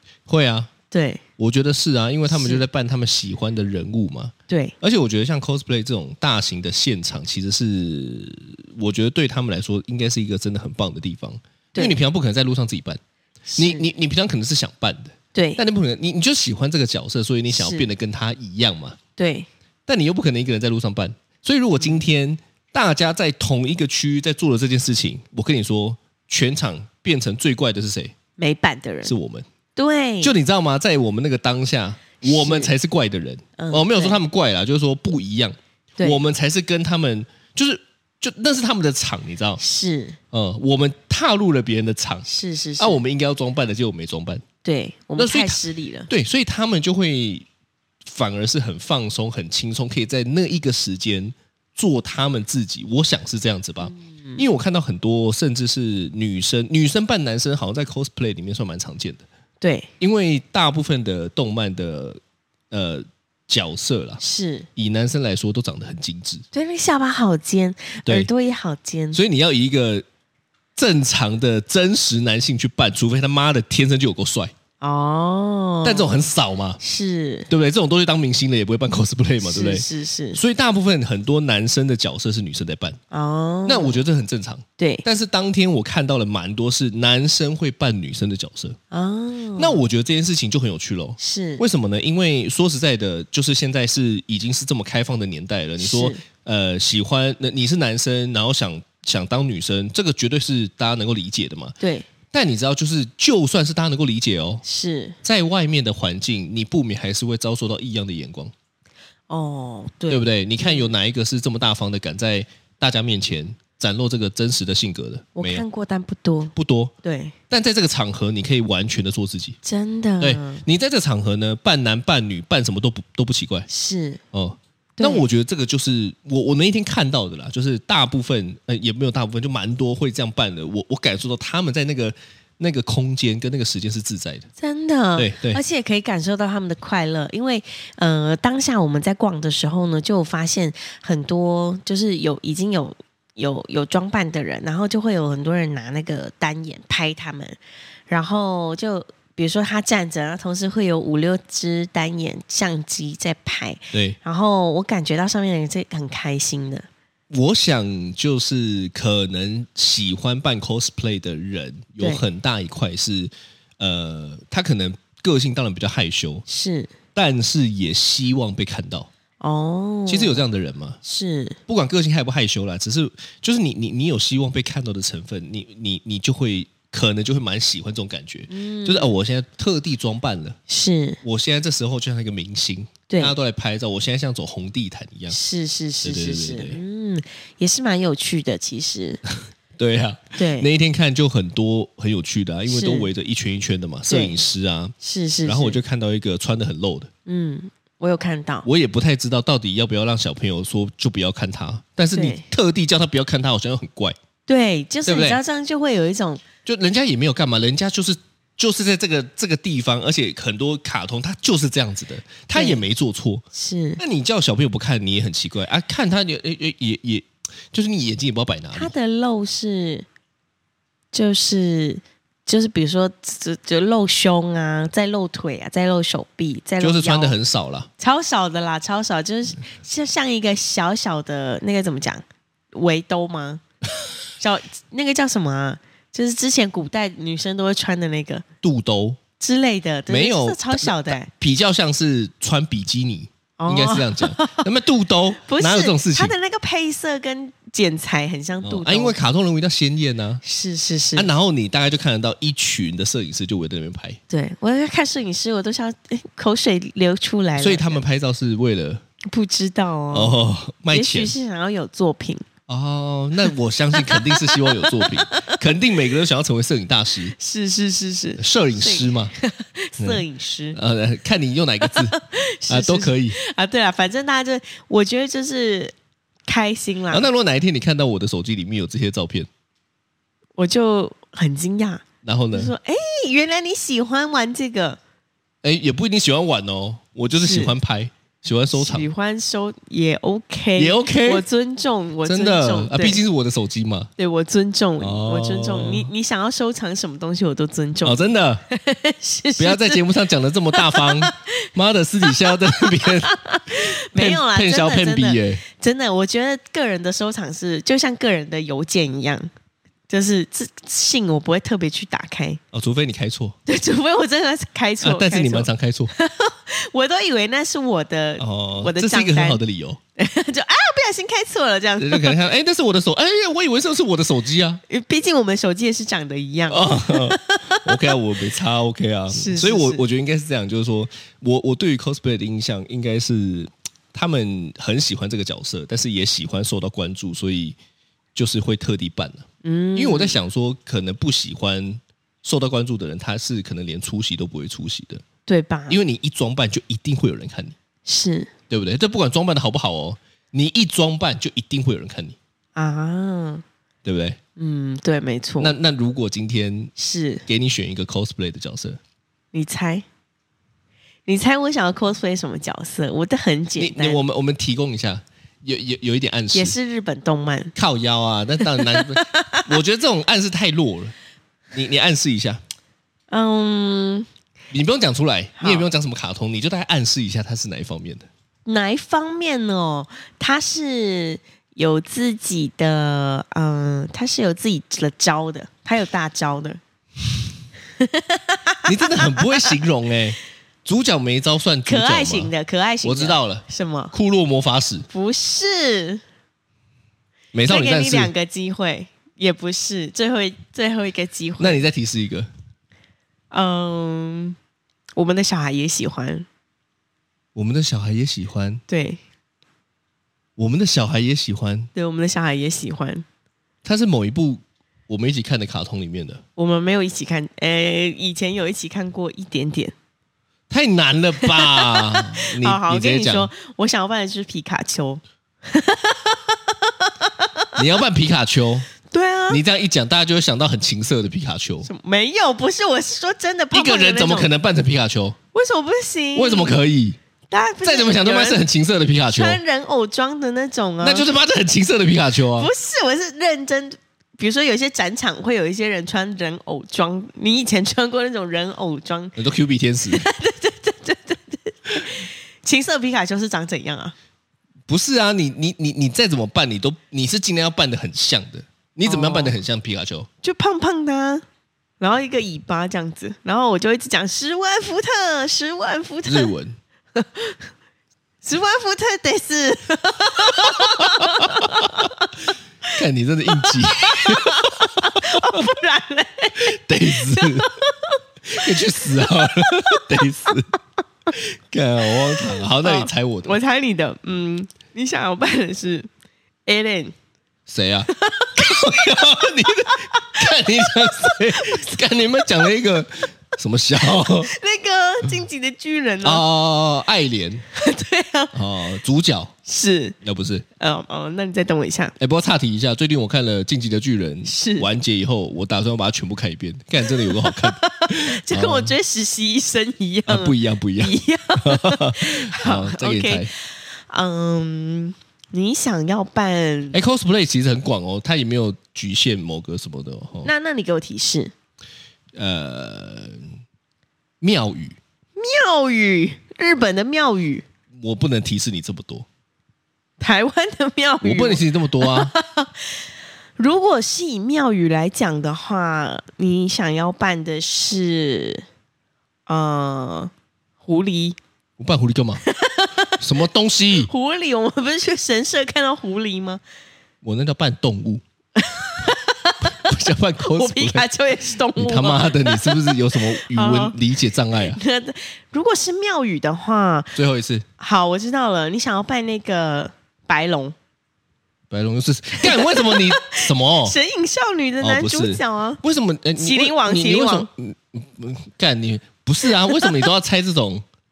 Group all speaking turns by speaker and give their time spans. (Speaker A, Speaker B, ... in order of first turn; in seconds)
Speaker A: 0.3-0.7, 1.4-13.0, 13.6-19.0, 19.9-28.1, 29.0-29.4, 30.2-39.6, 40.3-42.3, 42.8-44.4, 45.2-47.5, 48.0-59.2, 60.0-62.2, 62.7-64.2, 64.8-66.5, 69.1-70.0, 70.8-74.5, 75.8-76.8, 77.5-83.0, 83.7-88.8, 89.6-101.8, 102.3-104.6, 105.2-108.5, 110.1-115.6, 116.5-116.9, 117.5-119.6, 120.2-123.7, 124.3-134.5, 135.2-135.6, 157.3-166.4, 167.1-169.1, 170.1-171.0, 171.7-180.6, 181.2-185.4, 186.0-186.8, 189.8-197.1, 198.6-204.2, 205.1-205.4, 206.6-213.4, 214.0-218.9, 226.8-227.9, 238.6-239.2, 240.1-246.3, 248.6-250.4, 251.1-254.2, 257.6-259.0, 260.1-261.3, 262.7-267.3, 268.4-269.3, 270.0-272.2, 272.7-273.4, 277.1-279.5, 282.2-282.7, 285.6-289.1, 290.8-291.4, 292.2-294.1, 295.0-296.1, 298.0-298.6, 299.6-305.6, 312.7-313.6, 315.0-316.1, 318.4-320.0, 322.0-324.8, 326.7-337.8, 338.3-345.2, 345.9-347.7, 348.7-352.4, 354.0-354.4, 355.6-356.9, 357.4-359.0, 363.8-366.8, 367.8-371.1, 371.7-372.6, 374.7-378.3, 388.8-392.5, 393.0-395.1, 397.5-398.3, 401.6-402.5, 407.5-408.8, 410.6-411.9, 413.8-416.4, 420.7-423.5, 427.8-428.9, 429.5-431.9, 433.7-435.4, 436.3-437.2, 437.8-439.6, 441.0-442.7, 449.4-450.2, 454.9-460.3, 466.2-466.8, 470.7-472.1, 472.9-475.7, 476.6-477.7, 478.5-480.7, 481.3-483.6, 487.7-494.5, 496.2-497.6, 498.5-499.5, 500.2-500.6, 502.2-508.9, 510.3-513.5, 516.9-520.5, 522.3-523.4, 524.4-525.0, 528.0-529.2, 531.2-532.3, 541.8-542.4, 543.2-544.1, 547.2-548.2, 549.6-551.0, 551.7-554.8, 557.1-557.6, 561.7-564.0, 564.8-570.8
Speaker B: 0.9-1.2, 2.3-2.6, 4.5-4.7, 13.5-13.9, 15.3-15.6, 17.5-17.9, 19.2-19.5, 28.4-29.1, 29.8-30.3, 32.2-32.7, 33.6-34.2, 39.6-40.2, 42.3-43.0, 44.6-46.1, 53.8-54.4, 59.6-59.9, 64.2-64.7, 66.5-69.2, 74.8-76.2, 76.8-77.5, 79.4-80.4, 83.1-84.0, 84.8-85.0, 88.9-89.8, 91.2-91.6, 95.8-96.2, 101.8-102.1, 104.6-105.2, 109.3-110.9, 115.3-117.3, 119.6-120.6, 123.7-124.2, 125.0-125.2, 134.6-147.6, 148.1-156.9, 166.5-166.9, 169.4-170.4, 171.0-171.6, 178.5-179.1, 180.7-181.2, 183.1-183.3, 185.3-189.2, 190.3-190.7, 192.7-193.1, 194.1-194.3, 195.0-195.8, 197.3-198.7, 202.1-202.4, 204.5-206.4, 212.5-212.8, 213.5-214.0, 218.7-220.1, 221.1-227.3, 228.0-233.6, 234.4-238.4, 239.4-241.3, 243.6-244.6, 245.4-249.2, 250.4-251.3, 254.3-258.0, 259.3-260.3, 260.9-262.4, 263.9-265.6, 267.4-270.8, 271.8-275.9, 276.5-277.3, 280.6-285.0, 287.4-287.7, 288.7-293.2, 294.2-300.0, 300.7-301.5, 302.3-309.5, 310.1-312.6, 313.6-319.6, 320.2-322.4, 324.9-328.2, 329.3-330.0, 339.6-340.4, 345.5-346.0, 348.1-348.5, 352.8-353.6, 354.6-355.7, 356.9-357.4, 359.5-360.0, 361.3-364.2, 366.5-367.7, 368.6-369.7, 373.3-374.3, 375.6-375.9, 378.6-386.8, 388.0-389.8, 391.8-394.1, 395.1-396.2, 397.7-401.8, 403.5-404.6, 405.1-406.4, 408.9-409.2, 411.9-413.2, 416.6-419.9, 421.4-427.8, 429.1-429.6, 431.8-434.5, 435.5-436.8, 437.5-438.6, 439.3-441.3, 442.5-449.4, 450.1-454.1, 459.1-459.6, 460.4-461.4, 462.0-466.5, 467.1-467.6, 468.4-472.3, 473.5-480.5, 482.1-486.1, 486.6-487.1, 488.1-492.0, 494.0-496.4, 497.7-498.6, 499.6-500.1, 500.8-502.1, 504.4-504.9, 507.1-517.0, 520.4-521.5, 525.4-527.6, 530.2-533.0, 533.6-538.6, 539.5-540.3, 540.8-541.4, 542.4-543.2, 544.0-546.6, 548.6-549.8, 550.4-554.0, 554.6-557.1, 557.8-560.7, 562.4-565.8, 566.4-567.5, 569.5-570.1